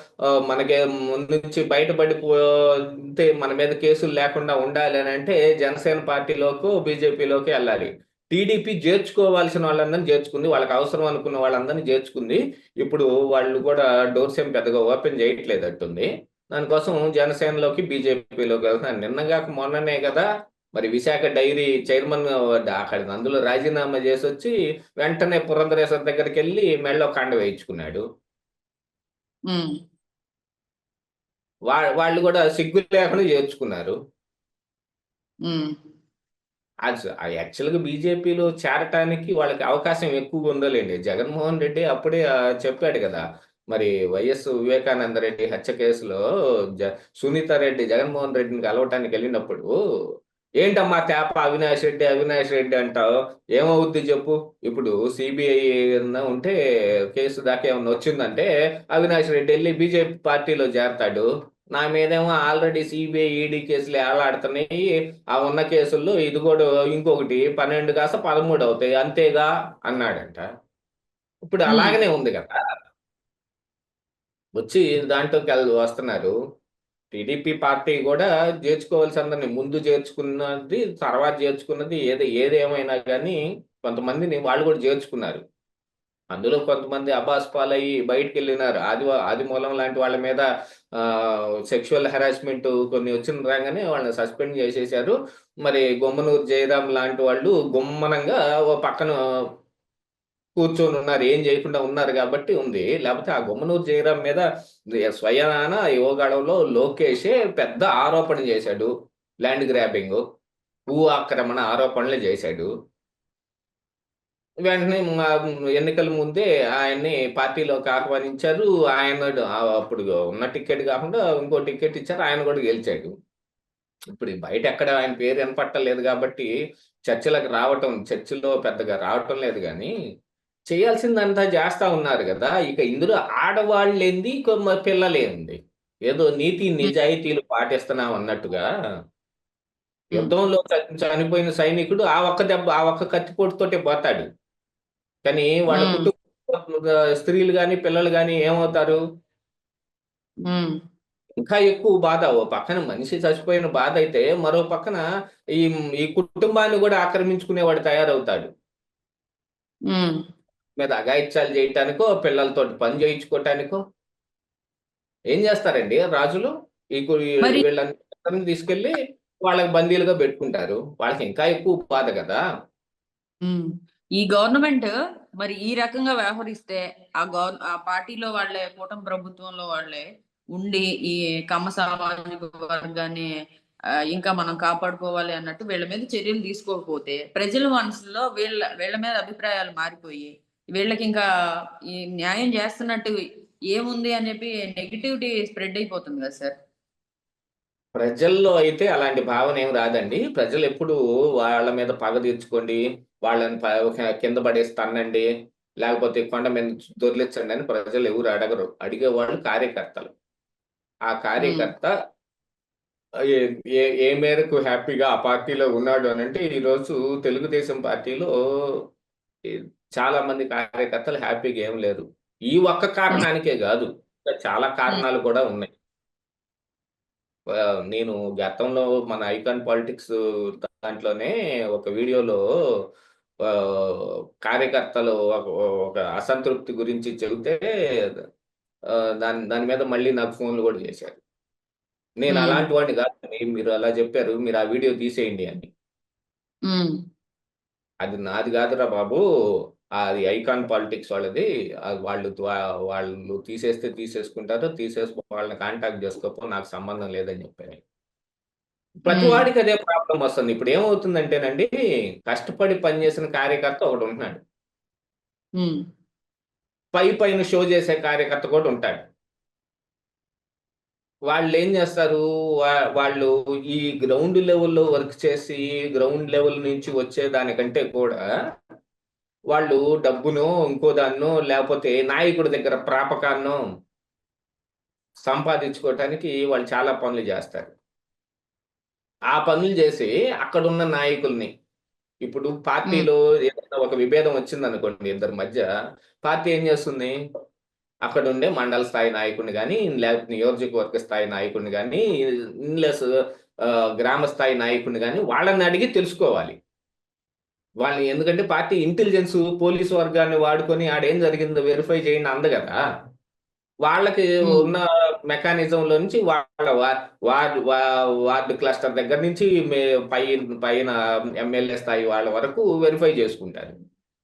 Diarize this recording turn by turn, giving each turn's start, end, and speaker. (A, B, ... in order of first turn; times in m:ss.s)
0:00.4-0:02.5 A
0:03.1-0:28.0 A
0:29.5-0:29.7 B
0:31.7-0:33.9 A
0:35.4-0:35.7 B
0:36.8-0:46.2 A
0:46.8-0:49.7 A
0:50.6-0:56.6 A
0:57.1-1:10.4 A
1:11.4-1:12.5 A
1:11.7-1:12.0 B
1:14.6-1:16.3 A
1:17.1-1:25.4 A
1:26.3-1:30.4 A
1:31.0-1:39.1 A
1:40.6-1:44.4 A
1:45.1-1:48.9 A
1:49.4-1:50.2 A
1:50.9-1:52.7 A
1:54.6-2:03.1 A
2:04.1-2:06.5 A
2:07.1-2:09.9 A
2:10.7-2:15.6 A
2:16.1-2:18.6 A
2:20.1-2:24.2 A
2:25.2-2:29.0 A
2:25.7-2:26.1 B
2:30.4-2:30.7 B
2:31.4-2:35.0 A
2:35.6-2:38.5 A
2:39.9-2:40.2 B
2:40.8-2:43.8 A
2:45.3-2:52.4 A
2:53.4-3:03.3 B
3:04.1-3:11.2 B
3:12.2-3:13.2 B
3:13.7-3:16.5 B
3:18.0-3:25.3 A
3:25.8-3:30.1 A
3:31.1-3:31.9 A
3:31.4-3:31.7 B
3:33.3-3:38.3 A
3:40.0-3:45.7 A
3:47.9-3:50.1 A
3:50.6-3:52.4 A
3:53.4-3:57.6 A
3:59.2-4:01.2 A
4:02.2-4:05.7 A
4:02.3-4:02.6 B
4:06.7-4:07.0 B
4:08.0-4:09.2 A
4:10.0-4:17.8 A
4:19.0-4:21.7 A
4:19.1-4:19.4 B
4:22.3-4:24.4 A
4:26.9-4:29.0 A
4:31.3-4:38.2 A
4:39.5-4:43.6 A
4:45.2-4:47.7 A
4:49.3-4:51.5 A
4:52.2-4:55.7 A
4:56.2-4:57.1 A
4:58.0-5:02.0 A
5:02.7-5:03.0 A
5:03.6-5:06.5 A
5:07.8-5:12.8 A
5:13.8-5:23.7 A
5:14.4-5:14.7 B